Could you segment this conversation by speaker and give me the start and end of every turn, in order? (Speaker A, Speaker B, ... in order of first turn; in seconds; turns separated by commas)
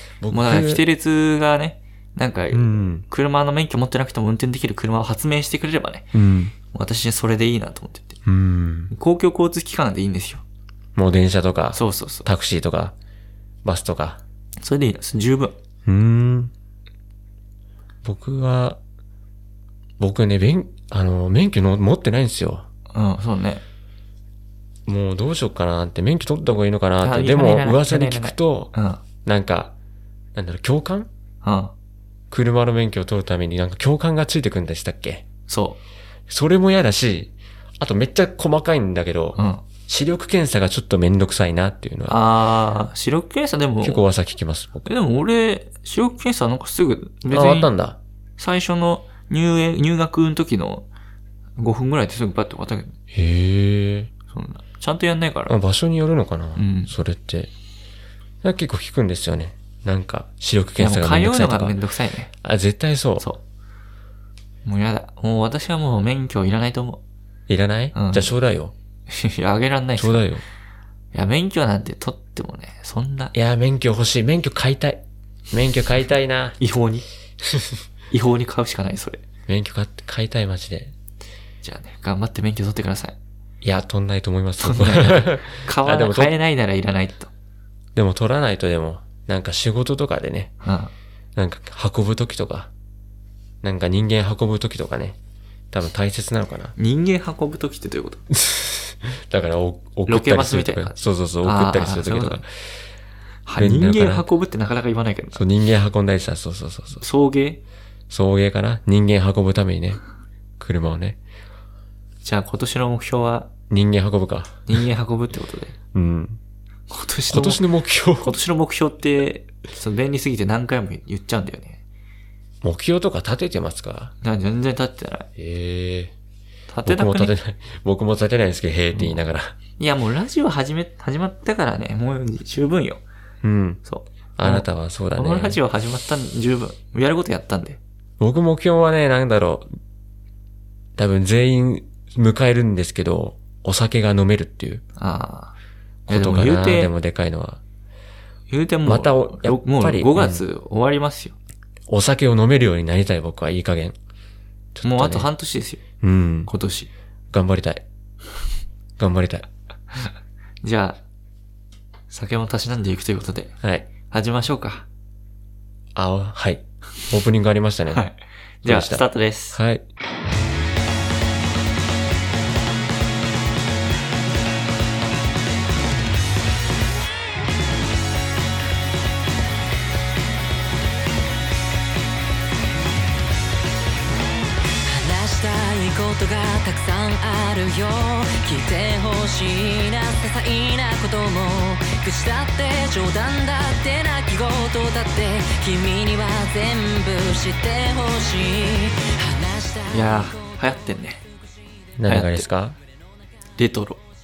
Speaker A: 0.2-0.8, Speaker B: 0.3-6.1, Speaker A: 2.5-3.0, Speaker A: 6.1-6.5, Speaker B: 6.7-8.2, Speaker A: 8.2-8.9, Speaker B: 8.9-10.4, Speaker A: 10.9-12.9, Speaker B: 11.7-12.3, Speaker A: 13.6-14.2, Speaker B: 14.6-15.6, Speaker A: 15.8-16.5, Speaker A: 18.0-18.8, Speaker A: 20.0-22.7, Speaker B: 22.9-23.6, Speaker A: 24.9-28.7, Speaker B: 27.0-29.0, Speaker A: 29.2-29.7, Speaker A: 30.4-31.1, Speaker B: 31.4-31.7, Speaker A: 32.3-35.2, Speaker B: 35.5-35.8, Speaker A: 36.3-42.2, Speaker B: 39.4-39.6, Speaker B: 42.1-44.0, Speaker A: 43.8-44.9, Speaker B: 44.9-47.7, Speaker A: 47.3-48.0, Speaker B: 48.4-50.9, Speaker B: 51.6-53.0, Speaker A: 53.1-54.1, Speaker B: 54.3-55.5, Speaker A: 55.5-57.5, Speaker B: 56.6-56.9, Speaker A: 58.4-61.8, Speaker B: 60.8-62.3, Speaker A: 62.4-63.3, Speaker B: 64.7-67.0, Speaker A: 67.5-68.7, Speaker B: 67.9-68.4, Speaker B: 69.1-70.3, Speaker A: 70.0-70.4, Speaker B: 71.1-73.3, Speaker A: 73.3-76.6, Speaker B: 76.6-77.0, Speaker A: 77.4-77.8, Speaker B: 78.1-79.2, Speaker A: 79.5-80.9, Speaker B: 81.6-83.2, Speaker A: 83.6-86.3, Speaker B: 84.6-87.3, Speaker A: 88.0-90.5, Speaker B: 90.6-90.9, Speaker A: 91.4-92.7, Speaker A: 93.6-95.2, Speaker A: 95.7-96.8, Speaker B: 96.8-98.2, Speaker A: 98.3-102.5, Speaker B: 100.1-102.4, Speaker B: 103.5-105.4, Speaker A: 103.6-104.3, Speaker A: 105.3-107.0, Speaker B: 107.0-107.6, Speaker A: 108.1-110.0, Speaker A: 110.6-111.2, Speaker B: 112.2-113.5, Speaker A: 113.7-114.7, Speaker B: 114.7-115.8, Speaker A: 115.9-116.4, Speaker B: 116.9-117.6, Speaker A: 117.3-118.4, Speaker B: 118.2-121.8, Speaker A: 122.6-124.1, Speaker B: 124.2-125.3, Speaker A: 125.4-126.1, Speaker B: 126.7-127.3, Speaker A: 126.8-129.6, Speaker B: 128.9-129.2, Speaker B: 129.8-133.0, Speaker A: 133.4-133.8, Speaker B: 133.8-137.8, Speaker A: 134.4-135.6, Speaker A: 138.2-139.7, Speaker A: 141.0-144.8, Speaker B: 145.0-145.5, Speaker A: 146.1-147.6, Speaker B: 146.1-146.9, Speaker B: 148.5-151.4, Speaker A: 148.8-150.4, Speaker A: 151.9-154.0, Speaker A: 154.7-155.3, Speaker B: 154.8-155.8, Speaker A: 156.0-156.5, Speaker B: 156.5-156.9, Speaker A: 157.3-157.8, Speaker A: 159.0-159.5, Speaker B: 160.6-161.0, Speaker B: 162.1-163.5, Speaker A: 163.6-163.9, Speaker B: 164.1-164.8, Speaker A: 165.9-168.1, Speaker B: 167.9-169.6, Speaker A: 168.7-169.8, Speaker C: 184.8-200.4, Speaker B: 199.9-201.2, Speaker A: 202.0-202.8, Speaker B: 202.1-202.5, Speaker B: 203.6-204.0